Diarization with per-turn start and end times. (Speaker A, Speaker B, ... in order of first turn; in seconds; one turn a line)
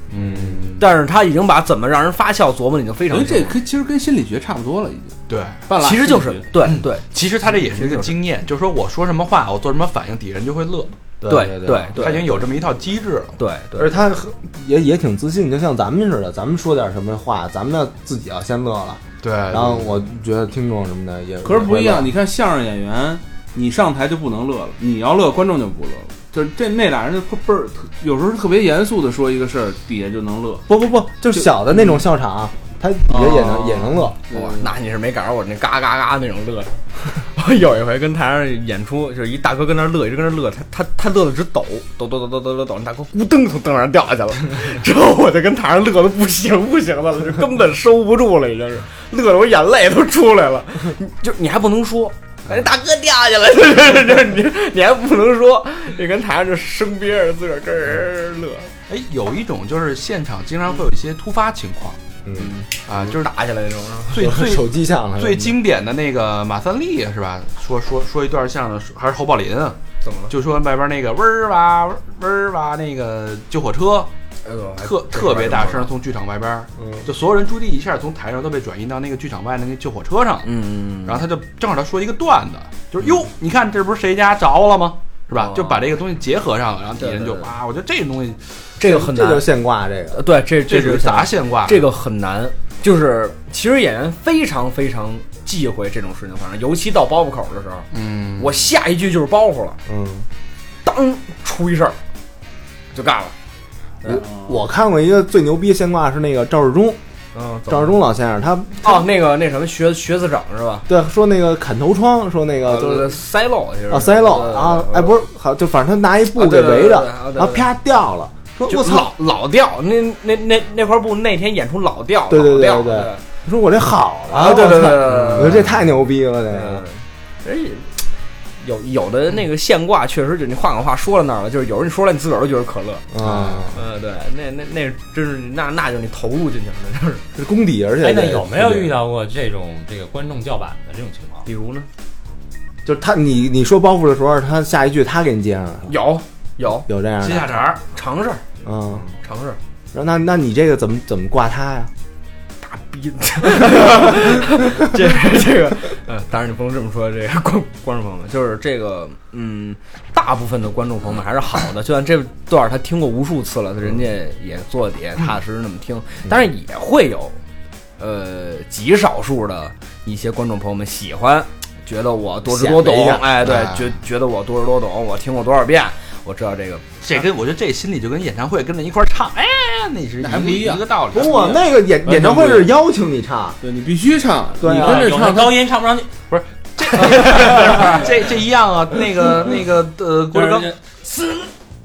Speaker A: 0.1-0.9
Speaker B: 0.8-3.6
Speaker C: 3.1-5.2
Speaker A: 5.3-5.6
Speaker C: 5.7-6.5
Speaker B: 5.7-7.1
Speaker A: 6.6-10.9
Speaker B: 7.7-8.1
Speaker D: 11.2-12.0
Speaker B: 11.3-12.4
Speaker A: 11.9-13.3
Speaker B: 13.4-14.0
Speaker D: 13.8-22.1
Speaker A: 19.2-20.1
Speaker C: 21.4-30.7
Speaker D: 30.7-34.2
Speaker C: 31.3-32.0
Speaker C: 33.1-34.7
Speaker B: 34.3-58.7
Speaker A: 58.9-62.0
Speaker D: 62.2-62.5
Speaker B: 62.4-64.3
Speaker A: 62.8-63.3
Speaker A: 64.1-69.8
Speaker D: 64.2-65.5
Speaker B: 70.0-70.3
Speaker A: 70.3-74.1
Speaker B: 74.4-75.9
Speaker A: 74.8-80.5
Speaker D: 76.8-77.1
Speaker B: 80.5-81.3
Speaker A: 81.0-88.6
Speaker B: 85.3-85.9
Speaker B: 87.0-87.5
Speaker B: 88.8-89.5
Speaker D: 88.8-90.2
Speaker B: 90.1-99.8
Speaker A: 90.7-91.9
Speaker A: 97.9-98.7
Speaker D: 99.9-100.3
Speaker B: 100.8-102.0
Speaker B: 102.9-103.3
Speaker D: 104.0-107.0
Speaker C: 104.2-104.5
Speaker B: 107.3-108.0
Speaker D: 107.7-109.1
Speaker B: 108.8-110.9
Speaker D: 110.9-113.2
Speaker B: 112.7-115.2
Speaker D: 113.9-119.1
Speaker B: 116.3-117.7
Speaker B: 118.7-123.2
Speaker D: 122.3-126.8
Speaker B: 124.3-125.8
Speaker B: 126.5-128.1
Speaker B: 128.6-133.1
Speaker D: 133.1-133.8
Speaker B: 133.7-137.2
Speaker D: 137.3-138.9
Speaker E: 138.0-141.5
Speaker B: 141.5-141.9
Speaker D: 142.8-145.9
Speaker B: 145.9-146.9
Speaker D: 146.9-147.6
Speaker A: 147.2-147.8
Speaker B: 147.9-148.4
Speaker D: 148.6-149.1
Speaker B: 149.2-149.6
Speaker D: 149.9-151.9
Speaker B: 152.6-167.4
Speaker B: 168.0-176.8
Speaker D: 172.5-173.3
Speaker A: 173.4-174.0
Speaker A: 177.0-181.6
Speaker C: 180.2-182.7
Speaker D: 181.1-183.6
Speaker C: 183.6-185.6
Speaker D: 184.6-185.2
Speaker E: 184.7-186.1
Speaker A: 186.3-190.7
Speaker B: 187.2-187.9
Speaker B: 190.3-191.5